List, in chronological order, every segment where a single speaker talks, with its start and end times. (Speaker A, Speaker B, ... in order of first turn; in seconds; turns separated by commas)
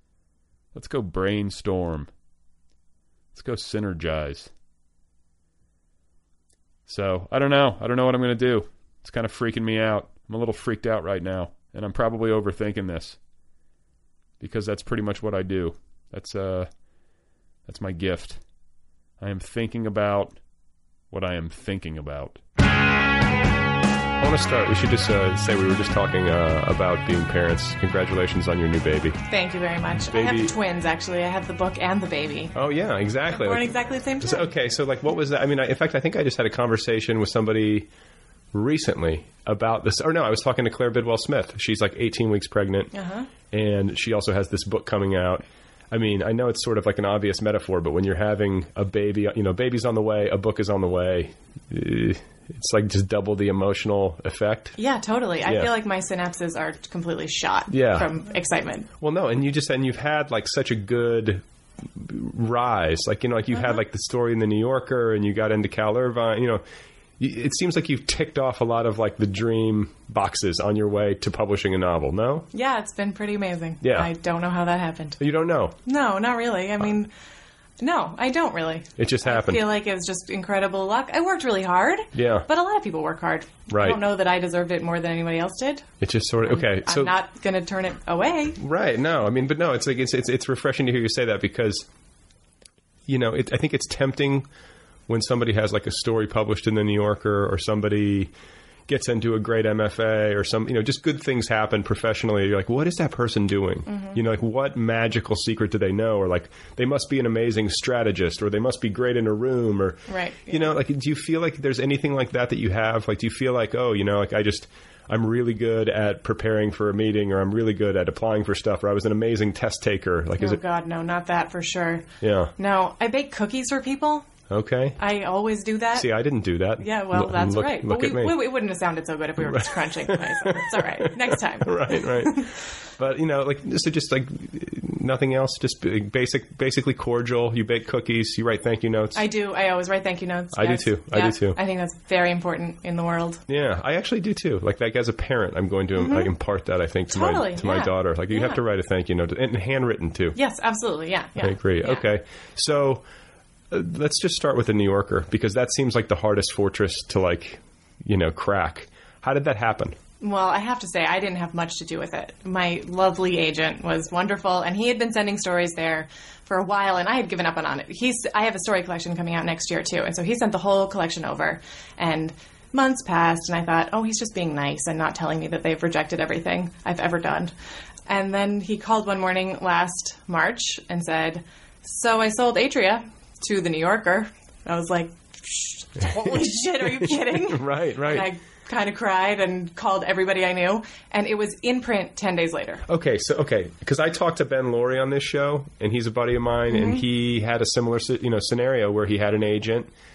Speaker A: 0.7-2.1, Speaker A: 3.3-4.5, Speaker A: 6.8-13.2, Speaker A: 14.4-16.7, Speaker A: 17.6-18.4, Speaker A: 19.2-20.4, Speaker A: 21.1-22.4, Speaker B: 24.2-29.2, Speaker C: 29.3-32.5, Speaker B: 30.1-30.5, Speaker B: 32.5-33.7, Speaker C: 33.3-34.5, Speaker B: 34.2-37.9, Speaker B: 38.5-42.9, Speaker C: 42.9-43.3, Speaker B: 43.5-54.8, Speaker C: 54.8-58.9, Speaker B: 55.4-55.7, Speaker B: 57.7-58.1, Speaker B: 59.0-61.4, Speaker B: 61.9-66.6, Speaker C: 63.5-63.8, Speaker B: 67.2-72.5, Speaker C: 72.5-75.2, Speaker B: 73.8-74.1, Speaker B: 75.2-75.8, Speaker C: 75.8-77.1, Speaker C: 77.8-88.6, Speaker B: 79.0-79.6, Speaker B: 82.1-82.5, Speaker B: 83.7-84.0, Speaker B: 86.0-87.1, Speaker B: 88.6-91.8, Speaker B: 93.1-94.5, Speaker B: 95.1-98.3, Speaker B: 98.9-120.6, Speaker C: 103.9-104.2, Speaker C: 110.1-110.7, Speaker C: 120.4-124.3, Speaker B: 122.2-122.5, Speaker B: 124.5-125.0, Speaker C: 125.0-126.1, Speaker B: 125.9-128.4, Speaker C: 126.8-132.5, Speaker B: 129.4-139.2, Speaker C: 139.1-143.4, Speaker B: 140.5-141.6, Speaker B: 143.5-150.4, Speaker C: 146.0-146.3, Speaker C: 147.1-148.6, Speaker C: 150.3-152.1, Speaker B: 151.4-153.0, Speaker B: 153.7-160.0, Speaker C: 160.2-177.5, Speaker C: 178.1-192.8, Speaker B: 186.8-188.3, Speaker B: 192.9-199.9, Speaker C: 196.7-197.0